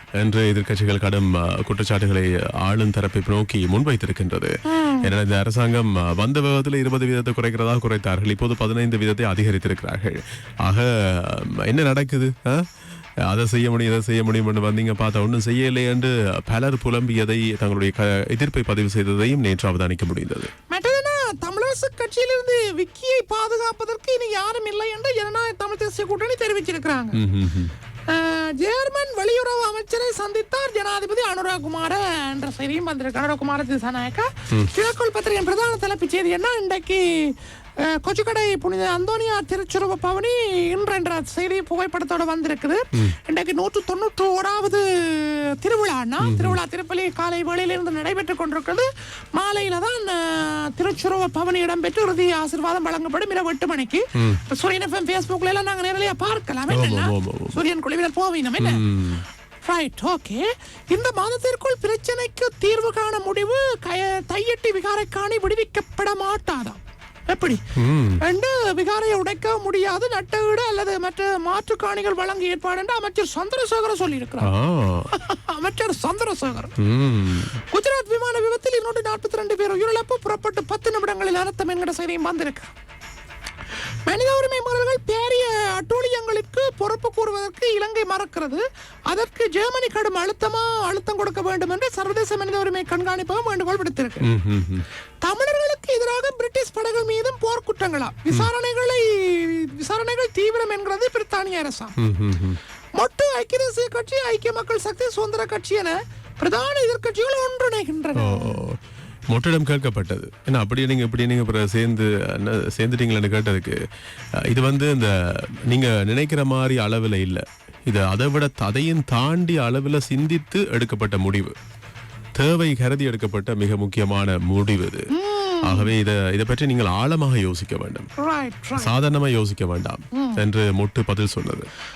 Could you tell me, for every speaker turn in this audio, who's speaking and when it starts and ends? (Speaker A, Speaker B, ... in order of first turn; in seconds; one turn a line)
Speaker A: 0.2-12.7
Speaker B: 4.7-5.1
Speaker A: 13.2-20.5
Speaker B: 20.7-27.2
Speaker A: 27.1-27.7
Speaker B: 28.1-58.8
Speaker A: 46.2-46.6
Speaker A: 56.7-57.6
Speaker A: 58.6-59.2
Speaker B: 59.6-66.8
Speaker B: 67.3-67.6
Speaker A: 67.8-68.2
Speaker B: 68.2-74.5
Speaker A: 74.4-75.1
Speaker B: 75.1-76.7
Speaker A: 76.8-77.5
Speaker B: 77.6-82.7
Speaker B: 84.0-94.3
Speaker A: 94.2-94.8
Speaker B: 95.2-101.9
Speaker A: 102.0-102.6
Speaker B: 103.0-108.6
Speaker A: 108.2-108.8
Speaker A: 109.3-113.8
Speaker A: 114.4-121.5
Speaker A: 122.3-125.1
Speaker B: 125.1-125.9
Speaker A: 125.6-128.1
Speaker B: 128.2-128.9
Speaker A: 128.8-131.7
Speaker B: 130.1-130.4